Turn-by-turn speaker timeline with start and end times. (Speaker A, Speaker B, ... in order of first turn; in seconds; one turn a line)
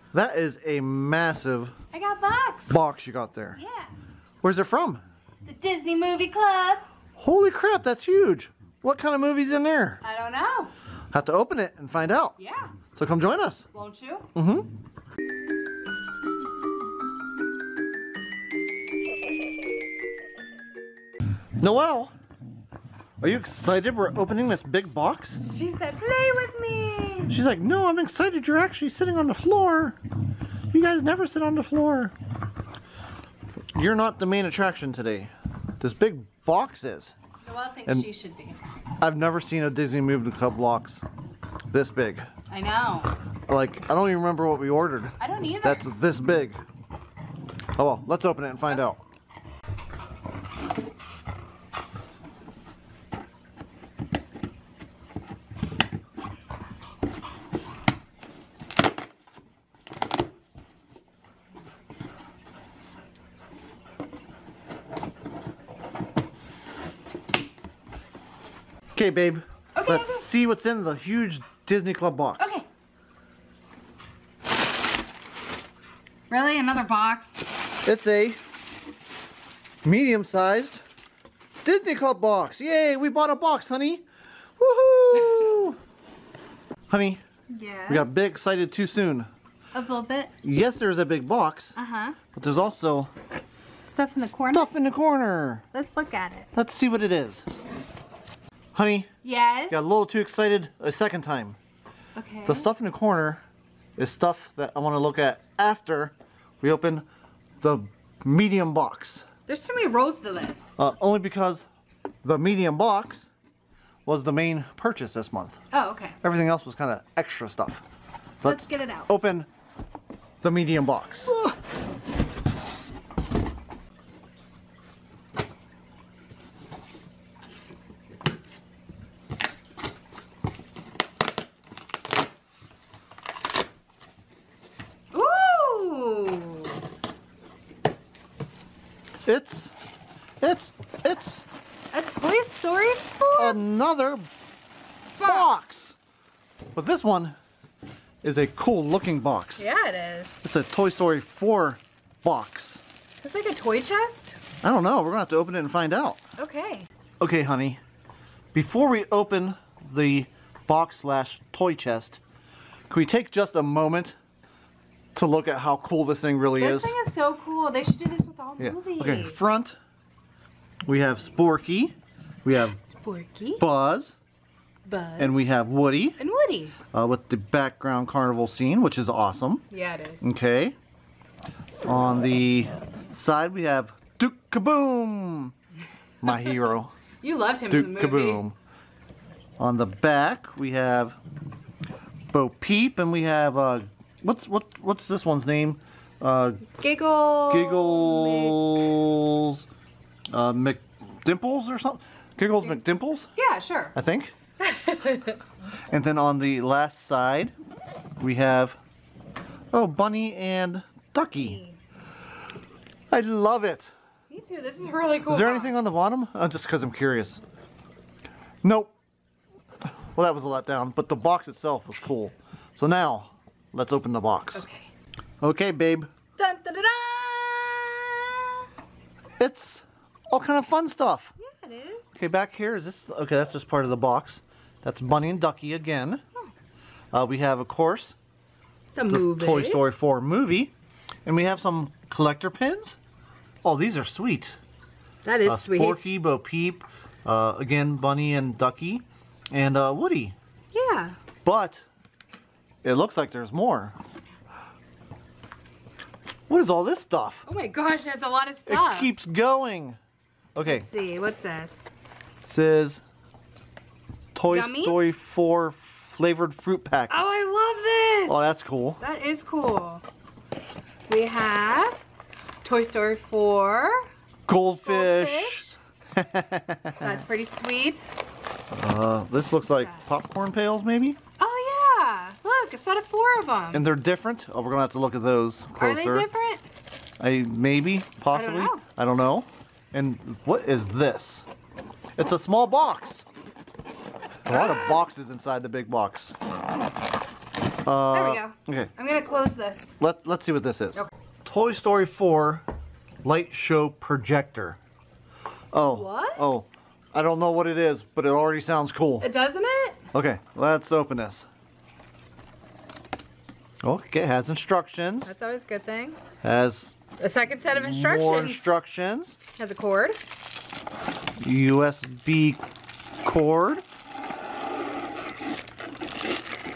Speaker A: 0.1-1.8
Speaker B: 1.9-2.7
Speaker A: 2.7-3.6
Speaker B: 3.6-3.9
Speaker A: 4.4-5.0
Speaker B: 5.5-6.8
Speaker A: 7.2-10.0
Speaker B: 10.0-10.7
Speaker A: 11.1-12.4
Speaker B: 12.4-12.8
Speaker A: 12.9-13.7
Speaker B: 13.7-14.3
Speaker A: 14.3-14.7
Speaker A: 21.6-22.1
Speaker A: 23.2-25.4
Speaker B: 25.4-27.4
Speaker A: 27.3-30.0
Speaker A: 30.7-32.1
Speaker A: 33.8-37.1
Speaker B: 37.5-38.6
Speaker A: 39.0-41.0
Speaker A: 41.7-42.3
Speaker B: 42.5-43.2
Speaker A: 43.5-46.6
Speaker B: 45.2-45.9
Speaker A: 47.8-49.0
Speaker A: 69.0-72.6
Speaker B: 69.8-70.3
Speaker B: 72.4-72.7
Speaker B: 76.3-77.4
Speaker A: 77.8-78.4
Speaker A: 79.8-80.8
Speaker A: 81.7-84.0
Speaker A: 84.6-85.8
Speaker A: 86.9-87.2
Speaker B: 87.5-88.1
Speaker A: 87.9-89.3
Speaker B: 89.7-90.3
Speaker A: 90.4-91.8
Speaker B: 91.8-92.2
Speaker A: 92.3-93.1
Speaker B: 93.9-94.7
Speaker A: 94.2-95.7
Speaker B: 95.7-96.5
Speaker A: 96.5-97.5
Speaker A: 98.7-99.1
Speaker B: 99.2-99.8
Speaker A: 99.7-101.6
Speaker B: 102.2-102.7
Speaker A: 102.5-103.4
Speaker A: 104.0-107.0
Speaker A: 107.6-109.3
Speaker B: 109.5-110.7
Speaker A: 110.8-111.7
Speaker A: 112.2-113.3
Speaker A: 114.1-115.6
Speaker B: 115.7-116.2
Speaker A: 116.2-117.8
Speaker A: 118.4-119.5
Speaker B: 118.4-119.1
Speaker A: 120.4-121.3
Speaker B: 121.3-121.5
Speaker B: 135.1-136.8
Speaker A: 139.2-139.7
Speaker A: 140.4-141.4
Speaker B: 141.9-143.6
Speaker A: 143.4-144.3
Speaker B: 145.2-145.5
Speaker A: 145.2-146.0
Speaker A: 146.8-147.4
Speaker A: 148.2-149.6
Speaker B: 149.6-150.3
Speaker A: 150.4-152.8
Speaker B: 153.2-154.4
Speaker A: 154.6-156.2
Speaker B: 156.4-156.9
Speaker A: 157.2-157.8
Speaker A: 158.5-162.2
Speaker A: 162.9-164.2
Speaker A: 165.2-166.9
Speaker B: 166.6-169.4
Speaker A: 168.6-169.8
Speaker A: 170.8-172.8
Speaker B: 172.8-173.6
Speaker A: 173.6-174.2
Speaker B: 174.8-175.4
Speaker A: 175.2-176.2
Speaker B: 176.2-176.8
Speaker A: 176.9-179.7
Speaker B: 179.7-180.2
Speaker A: 180.2-180.8
Speaker A: 181.8-185.5
Speaker A: 186.2-186.9
Speaker B: 187.2-188.4
Speaker A: 187.7-188.6
Speaker A: 189.6-191.2
Speaker A: 192.3-196.7
Speaker B: 196.8-198.7
Speaker A: 197.5-199.6
Speaker A: 200.3-203.3
Speaker B: 203.3-203.9
Speaker A: 203.9-204.3
Speaker B: 204.6-205.4
Speaker A: 205.9-207.5
Speaker A: 208.2-208.8
Speaker A: 209.7-211.6
Speaker B: 211.3-211.8
Speaker A: 213.1-213.9
Speaker B: 214.3-215.8
Speaker A: 215.3-217.4
Speaker A: 218.6-218.9
Speaker A: 219.8-224.7
Speaker B: 224.6-224.9
Speaker A: 225.4-226.1
Speaker B: 226.4-228.7
Speaker A: 229.4-231.3
Speaker B: 231.4-232.1
Speaker A: 232.1-236.2
Speaker A: 237.1-238.2
Speaker B: 238.9-239.8
Speaker A: 239.1-240.7
Speaker A: 241.3-243.0
Speaker A: 243.6-244.6
Speaker B: 245.2-246.1
Speaker A: 245.4-250.4
Speaker B: 250.7-251.2
Speaker A: 251.4-251.8
Speaker A: 252.8-253.9
Speaker A: 256.5-257.4
Speaker B: 257.5-259.1
Speaker A: 258.7-260.0
Speaker A: 260.6-260.9
Speaker B: 260.6-261.9
Speaker A: 262.5-263.0
Speaker A: 264.4-267.4
Speaker B: 264.5-265.1
Speaker B: 267.1-268.4
Speaker A: 268.3-269.0
Speaker B: 269.0-270.0
Speaker B: 271.1-272.0
Speaker B: 272.6-274.1
Speaker A: 274.5-277.2
Speaker B: 274.8-275.7
Speaker B: 277.0-278.1
Speaker A: 278.7-281.2
Speaker B: 279.6-280.0
Speaker B: 281.4-283.9
Speaker A: 283.7-286.3
Speaker B: 285.8-286.6
Speaker A: 287.2-291.5
Speaker B: 288.3-288.8
Speaker A: 292.2-293.3
Speaker A: 294.5-296.4
Speaker B: 294.5-295.0
Speaker A: 297.9-298.9
Speaker B: 298.1-299.9
Speaker A: 300.0-302.6
Speaker A: 303.2-304.8
Speaker A: 305.7-309.3
Speaker B: 305.8-306.5
Speaker B: 309.2-310.1
Speaker A: 310.1-311.5
Speaker A: 313.8-315.3
Speaker B: 315.3-316.2
Speaker A: 316.4-317.0
Speaker B: 317.2-318.6
Speaker A: 317.7-319.4
Speaker B: 319.6-320.2
Speaker A: 321.4-322.6
Speaker A: 323.2-323.8